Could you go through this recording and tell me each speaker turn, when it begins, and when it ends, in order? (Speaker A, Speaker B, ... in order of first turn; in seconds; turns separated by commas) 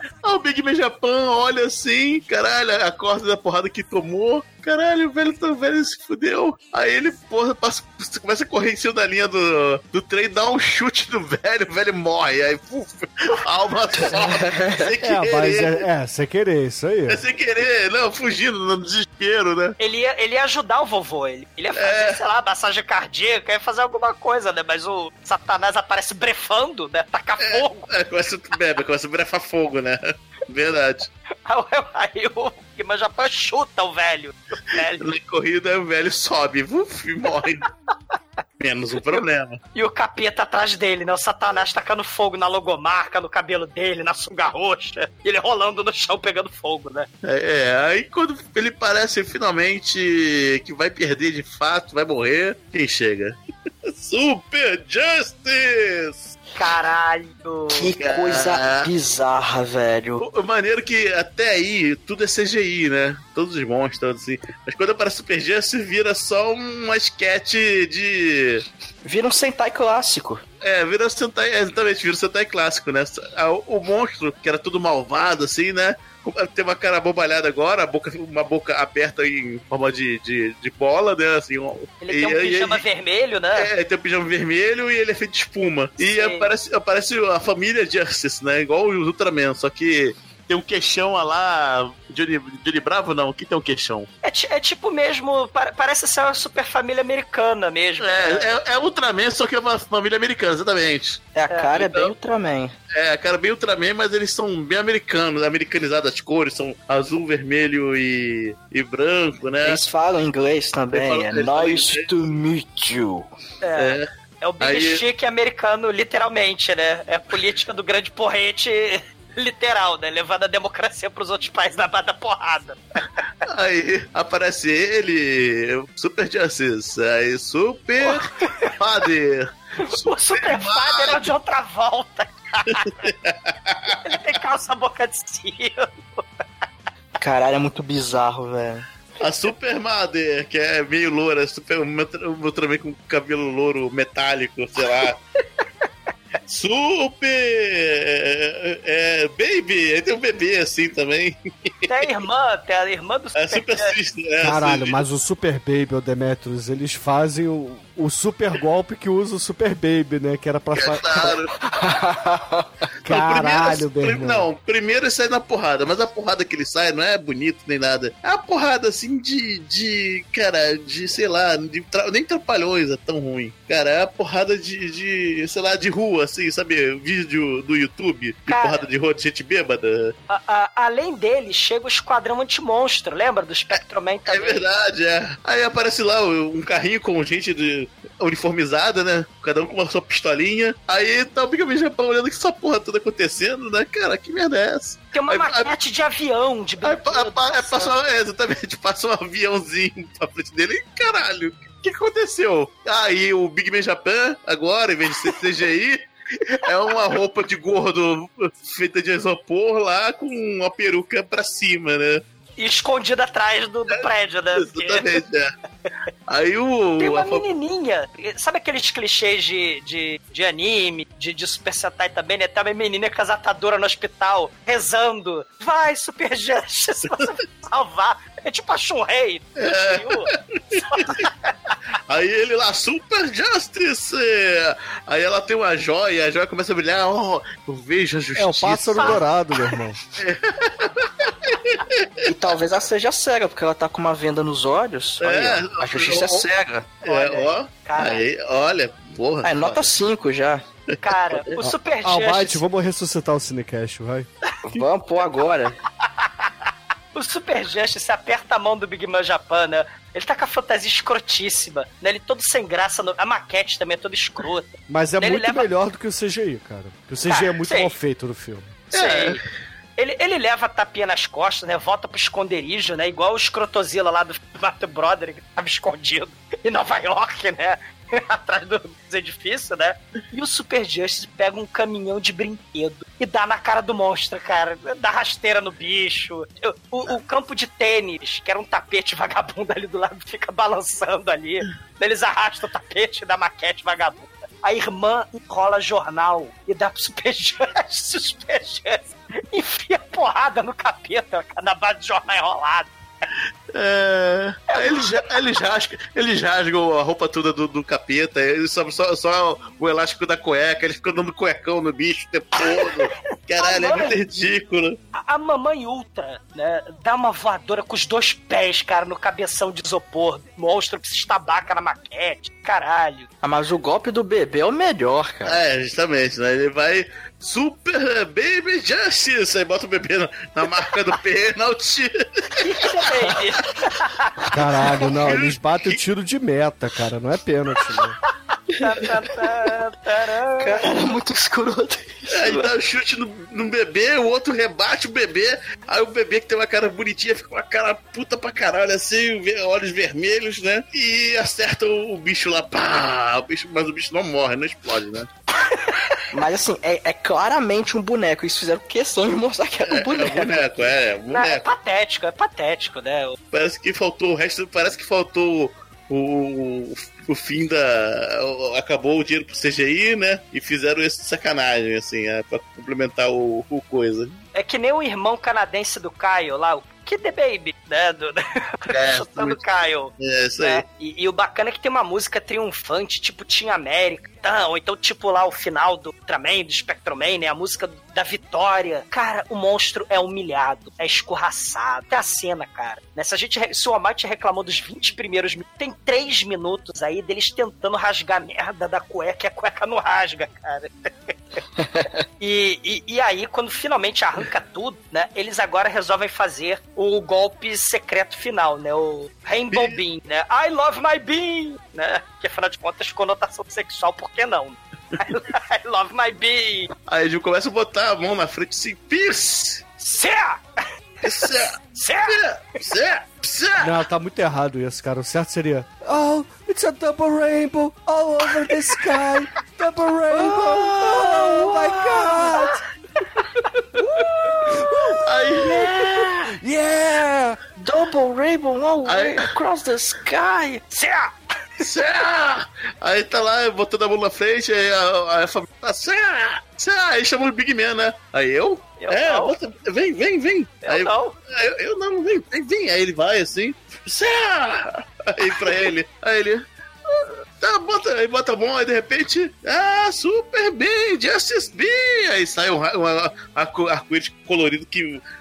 Speaker A: 0.2-15.8, Speaker B: 14.0-14.8, Speaker C: 15.0-17.2, Speaker A: 17.1-19.8, Speaker D: 19.8-27.9, Speaker A: 21.8-22.2, Speaker A: 27.4-31.1, Speaker D: 31.5-35.1, Speaker A: 35.0-37.7, Speaker A: 38.6-39.6, Speaker D: 39.7-47.1, Speaker A: 47.2-56.4, Speaker D: 56.5-57.9, Speaker B: 57.7-60.2, Speaker A: 58.0-58.9, Speaker A: 60.2-68.6, Speaker B: 69.0-70.4, Speaker A: 70.6-82.8, Speaker D: 82.0-83.7, Speaker A: 83.5-94.1, Speaker D: 86.1-86.5, Speaker D: 94.2-98.5, Speaker A: 98.0-102.1, Speaker B: 101.3-102.7, Speaker A: 102.9-109.8, Speaker B: 109.6-113.3, Speaker A: 110.9-112.0, Speaker D: 113.6-123.2, Speaker A: 113.8-114.0, Speaker A: 114.6-115.0, Speaker A: 123.5-131.3, Speaker D: 128.0-128.7, Speaker D: 129.8-133.1, Speaker A: 132.8-134.1, Speaker D: 134.0-136.2, Speaker B: 137.2-138.9, Speaker A: 139.2-145.2, Speaker A: 146.5-152.0, Speaker D: 151.9-153.9, Speaker A: 153.4-155.0, Speaker C: 154.4-161.4, Speaker A: 160.7-161.5, Speaker B: 161.7-162.7, Speaker C: 163.0-164.4, Speaker A: 163.1-180.1, Speaker D: 178.5-178.8, Speaker D: 180.3-184.6, Speaker A: 184.3-195.7, Speaker D: 195.1-197.9, Speaker A: 196.8-212.2, Speaker D: 212.6-215.1, Speaker A: 213.9-215.5, Speaker A: 216.3-217.4, Speaker D: 217.0-231.7, Speaker A: 229.6-231.3, Speaker A: 232.1-239.2, Speaker C: 238.3-240.0, Speaker A: 240.2-242.0, Speaker B: 242.2-246.9, Speaker A: 245.2-246.5, Speaker A: 247.0-249.9, Speaker D: 247.0-248.2, Speaker B: 249.4-250.6, Speaker D: 251.0-252.6, Speaker C: 252.0-254.3, Speaker B: 254.6-255.8, Speaker D: 256.1-256.5, Speaker D: 257.1-265.7, Speaker C: 264.9-268.9, Speaker D: 267.3-267.9, Speaker D: 268.9-269.4, Speaker A: 268.9-269.4, Speaker D: 270.0-302.9, Speaker A: 303.7-315.0, Speaker D: 304.7-305.2, Speaker D: 312.6-313.1, Speaker D: 313.6-314.2, Speaker D: 315.1-323.3, Speaker B: 323.4-325.6, Speaker A: 325.4-332.7, Speaker D: 332.6-334.4, Speaker C: 334.5-338.2, Speaker A: 334.9-336.0, Speaker D: 338.8-340.9, Speaker B: 340.6-342.7, Speaker A: 342.3-355.3, Speaker D: 355.6-356.2, Speaker B: 356.3-360.9, Speaker A: 359.9-361.7, Speaker D: 361.3-363.4, Speaker A: 363.5-374.3, Speaker D: 374.5-401.6, Speaker A: 378.9-379.6, Speaker A: 380.2-380.8, Speaker D: 402.4-416.9, Speaker A: 409.7-410.0, Speaker A: 417.1-419.8, Speaker D: 420.0-422.4, Speaker A: 421.2-424.0, Speaker C: 423.8-432.8, Speaker B: 430.4-431.6, Speaker D: 432.3-432.7, Speaker C: 433.9-437.6, Speaker A: 435.2-435.9, Speaker B: 435.6-436.6, Speaker B: 437.8-440.8, Speaker A: 439.1-439.5, Speaker D: 440.9-441.3, Speaker A: 441.8-465.2, Speaker D: 449.0-449.5, Speaker D: 450.8-451.3